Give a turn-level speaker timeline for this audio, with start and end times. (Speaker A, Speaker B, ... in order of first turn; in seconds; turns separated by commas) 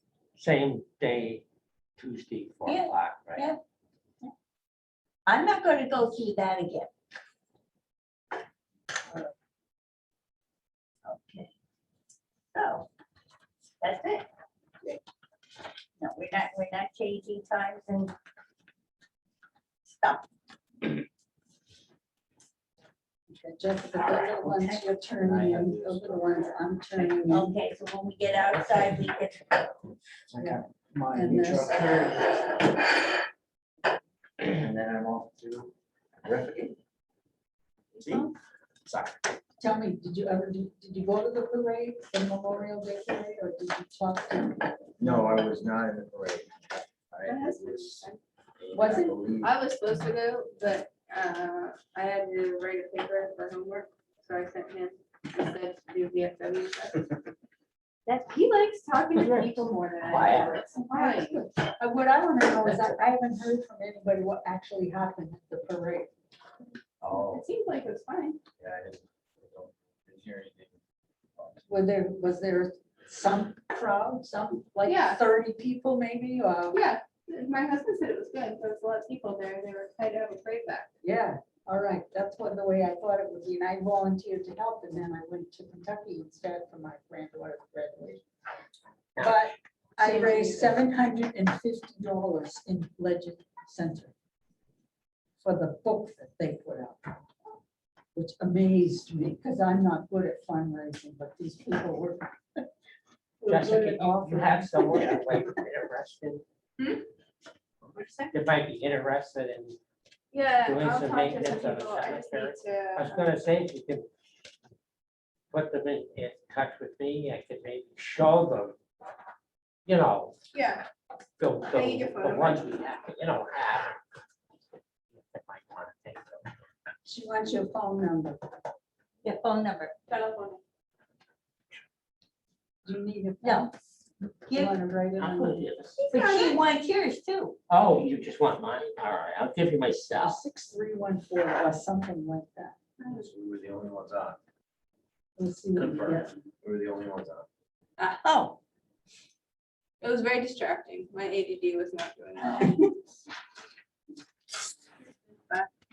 Speaker A: 0.3-1.4, Speaker A: 2.0-3.5, Speaker B: 2.6-3.6, Speaker B: 5.2-6.9, Speaker B: 11.0-11.5, Speaker B: 12.5-12.9, Speaker B: 13.8-14.3, Speaker B: 16.0-18.1, Speaker B: 19.8-20.3, Speaker C: 23.3-27.5, Speaker B: 24.3-24.8, Speaker D: 25.2-26.3, Speaker B: 27.2-29.6, Speaker D: 30.3-32.4, Speaker C: 30.4-32.4, Speaker D: 34.4-36.8, Speaker E: 37.9-38.3, Speaker D: 38.9-39.2, Speaker C: 39.6-45.3, Speaker D: 45.0-48.1, Speaker E: 47.2-48.2, Speaker D: 48.6-49.6, Speaker C: 48.7-49.2, Speaker E: 49.4-57.1, Speaker E: 58.1-61.4, Speaker B: 60.2-60.5, Speaker C: 60.9-66.1, Speaker D: 67.0-67.5, Speaker E: 67.1-68.4, Speaker D: 68.6-70.8, Speaker D: 71.4-71.6, Speaker C: 71.7-76.8, Speaker E: 74.8-75.2, Speaker E: 76.7-80.9, Speaker C: 81.0-88.2, Speaker C: 89.2-94.1, Speaker E: 90.0-90.7, Speaker C: 95.4-97.2, Speaker C: 98.1-102.7, Speaker C: 103.4-105.1, Speaker A: 103.5-106.4, Speaker E: 106.8-107.0, Speaker B: 108.0-108.3, Speaker A: 108.3-109.8, Speaker E: 110.3-113.3, Speaker A: 110.6-114.1, Speaker A: 115.5-118.8, Speaker A: 119.8-120.3, Speaker E: 120.5-120.9, Speaker A: 121.4-124.0, Speaker E: 121.7-122.8, Speaker A: 125.1-126.4, Speaker C: 127.0-128.4, Speaker B: 129.2-129.9, Speaker E: 130.1-130.6, Speaker C: 132.8-133.7, Speaker B: 133.4-133.7, Speaker B: 134.5-134.8, Speaker C: 134.5-135.6, Speaker A: 135.2-136.1, Speaker E: 136.0-136.6, Speaker B: 136.1-137.6, Speaker A: 137.7-140.4, Speaker C: 140.2-142.8, Speaker E: 143.0-143.3, Speaker D: 143.1-144.4, Speaker C: 145.4-146.3, Speaker D: 145.9-147.5, Speaker B: 148.2-148.6, Speaker E: 150.0-152.9